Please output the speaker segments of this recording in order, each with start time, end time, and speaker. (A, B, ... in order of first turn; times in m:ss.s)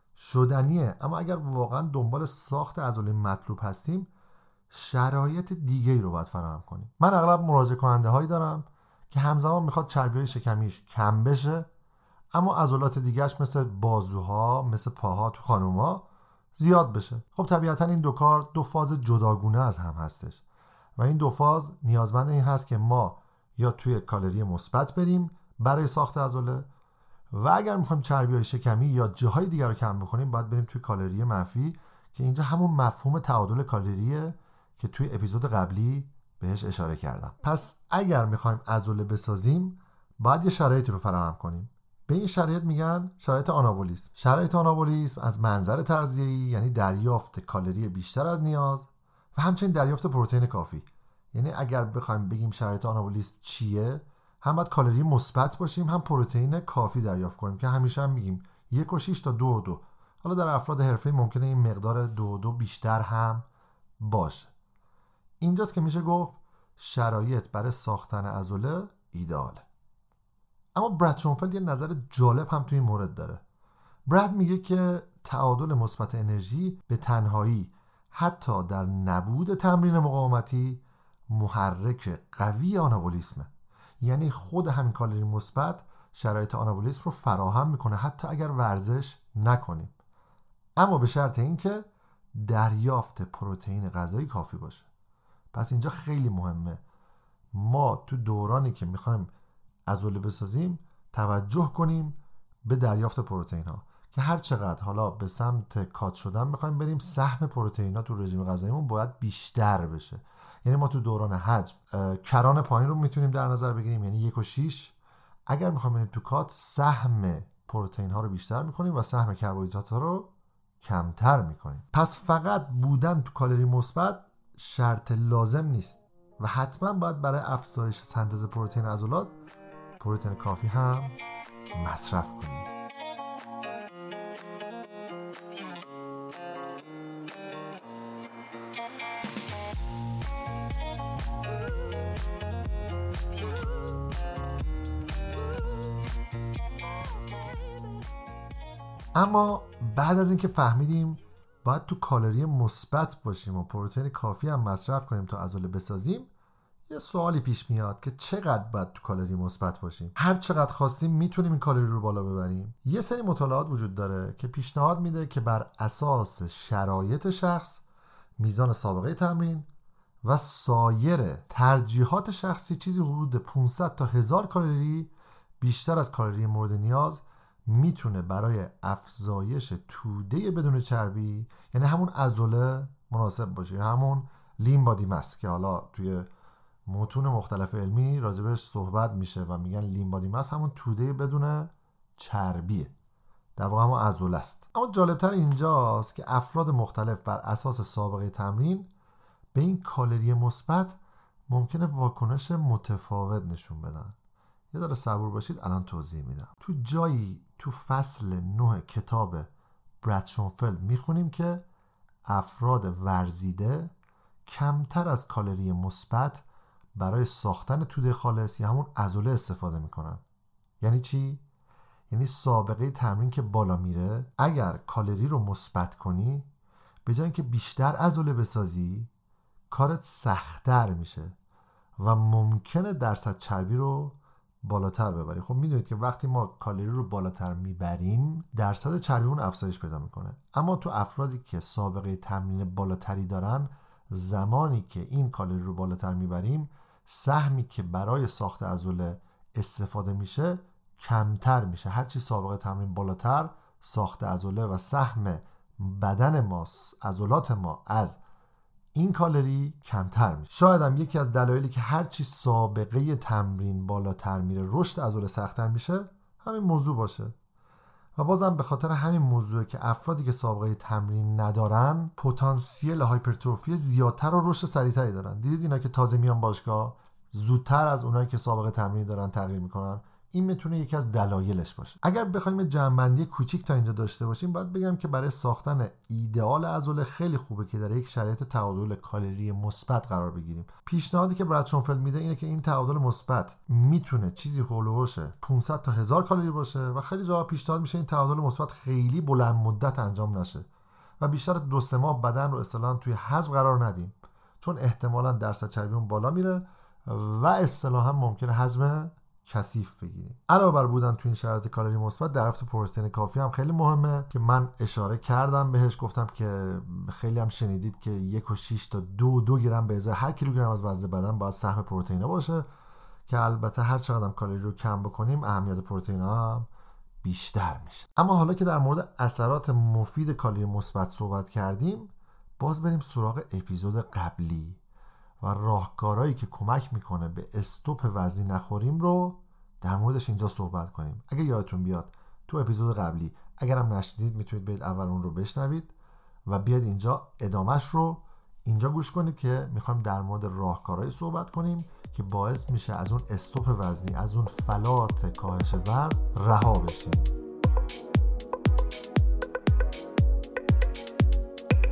0:00.2-0:04.1 A
0:04.7-0:11.7 A
0:12.3-0:16.0 A
0:16.6-0:20.4 A
0:21.0-0:26.7 A
0:27.3-1:03.5 A
1:04.0-1:04.5 A
1:05.4-1:09.6 A
1:10.8-1:13.4 A
1:14.1-1:30.0 A
1:30.8-1:34.9 A
1:35.5-1:36.8 A
1:37.5-1:39.3 A
1:39.9-1:54.9 A
1:55.5-2:00.3 A
2:00.8-2:09.3 A
2:10.0-2:11.2 A
2:11.7-2:12.7 A
2:29.2-2:36.3 A
2:36.9-2:47.8 A
2:48.4-2:49.7 A
2:50.2-3:06.3 A
3:06.9-3:12.9 A
3:13.6-3:18.9 A
3:19.5-3:21.0 A
3:21.5-3:24.2 A
3:24.7-3:29.5 A
3:30.0-3:31.6 A
3:32.3-3:33.9 A
3:34.5-3:36.4 A
3:37.0-3:40.2 A
3:40.8-3:41.4 A
3:42.1-3:46.5 A
3:47.0-3:49.1 A
3:49.7-3:51.4 A
3:52.0-4:18.2 A
4:18.9-4:27.4 A
4:28.2-5:00.7 A
5:01.2-5:22.7 A
5:23.3-5:26.7 A
5:27.2-5:34.8 A
5:35.4-5:45.9 A
5:46.5-5:57.3 A